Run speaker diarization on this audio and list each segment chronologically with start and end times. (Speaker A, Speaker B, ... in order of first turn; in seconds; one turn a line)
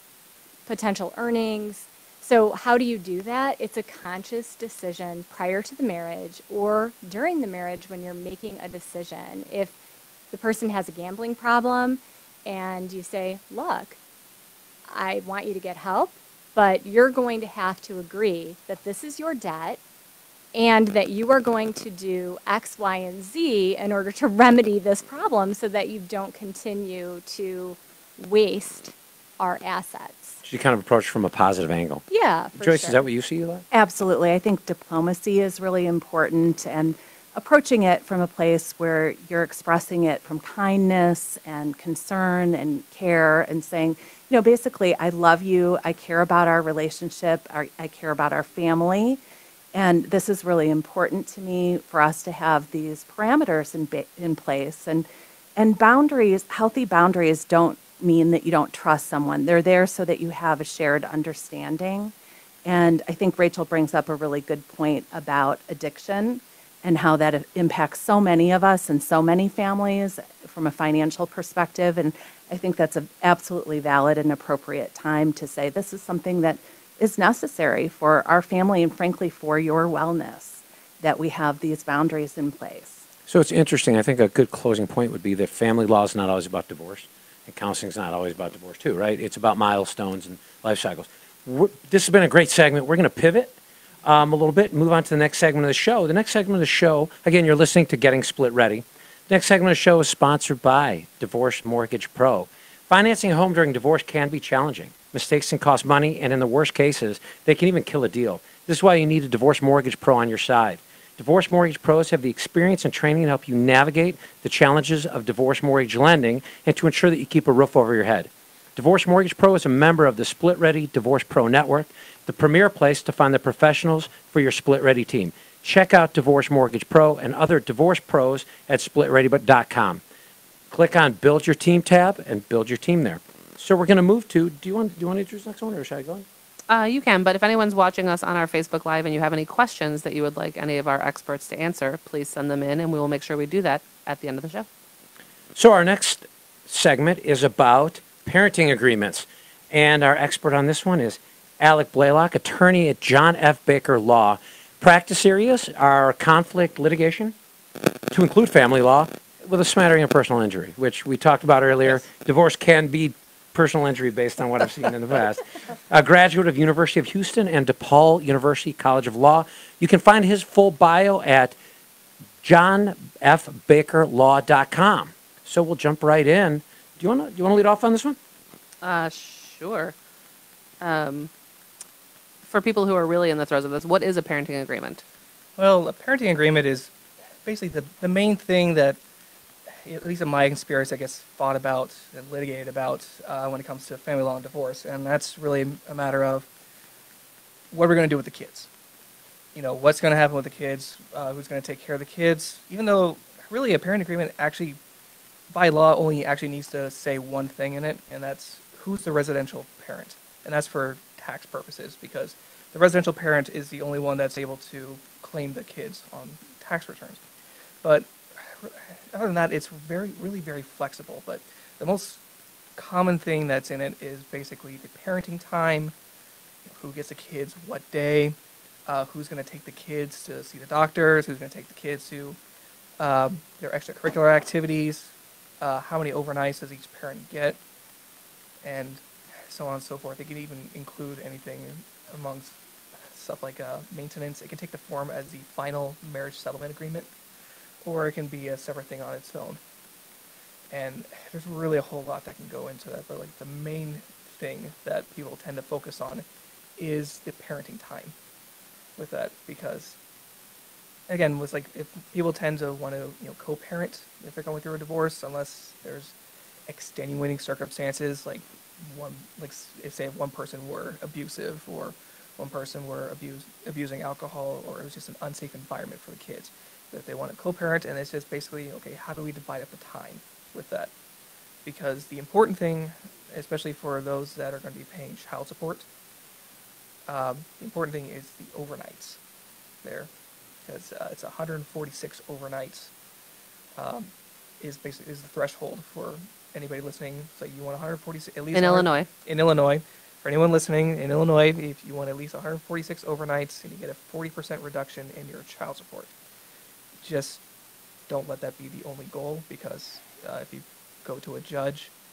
Speaker A: 0.7-9.7
Speaker A: 10.3-14.0
Speaker A: 14.9-19.8
Speaker A: 20.5-30.4
Speaker B: 30.4-32.0
Speaker A: 32.1-33.0
Speaker B: 32.6-33.6
Speaker C: 33.7-49.2
Speaker C: 49.7-62.1
Speaker C: 62.6-83.0
Speaker B: 83.3-130.0
Speaker B: 130.7-136.2
Speaker D: 136.7-144.7
Speaker B: 145.6-157.3
Speaker B: 158.1-171.6
Speaker B: 172.4-178.2
Speaker D: 178.8-179.9
Speaker D: 180.8-181.3
Speaker D: 182.4-185.0
Speaker E: 185.6-189.0
Speaker E: 189.8-196.5
Speaker E: 197.7-198.7
Speaker E: 199.6-204.8
Speaker E: 205.5-217.2
Speaker E: 217.8-222.2
Speaker E: 222.8-225.9
Speaker E: 226.6-232.4
Speaker E: 233.0-237.6
Speaker E: 238.6-242.6
Speaker E: 243.1-247.1
Speaker E: 247.8-249.6
Speaker E: 250.7-256.2
Speaker E: 256.8-258.1
Speaker E: 259.0-260.0
Speaker E: 261.1-266.1
Speaker E: 266.7-280.9
Speaker E: 281.6-285.9
Speaker E: 287.1-289.2
Speaker E: 289.8-290.1
Speaker E: 290.6-292.9
Speaker E: 293.8-306.1
Speaker D: 298.5-299.1
Speaker E: 307.0-307.4
Speaker E: 308.1-311.9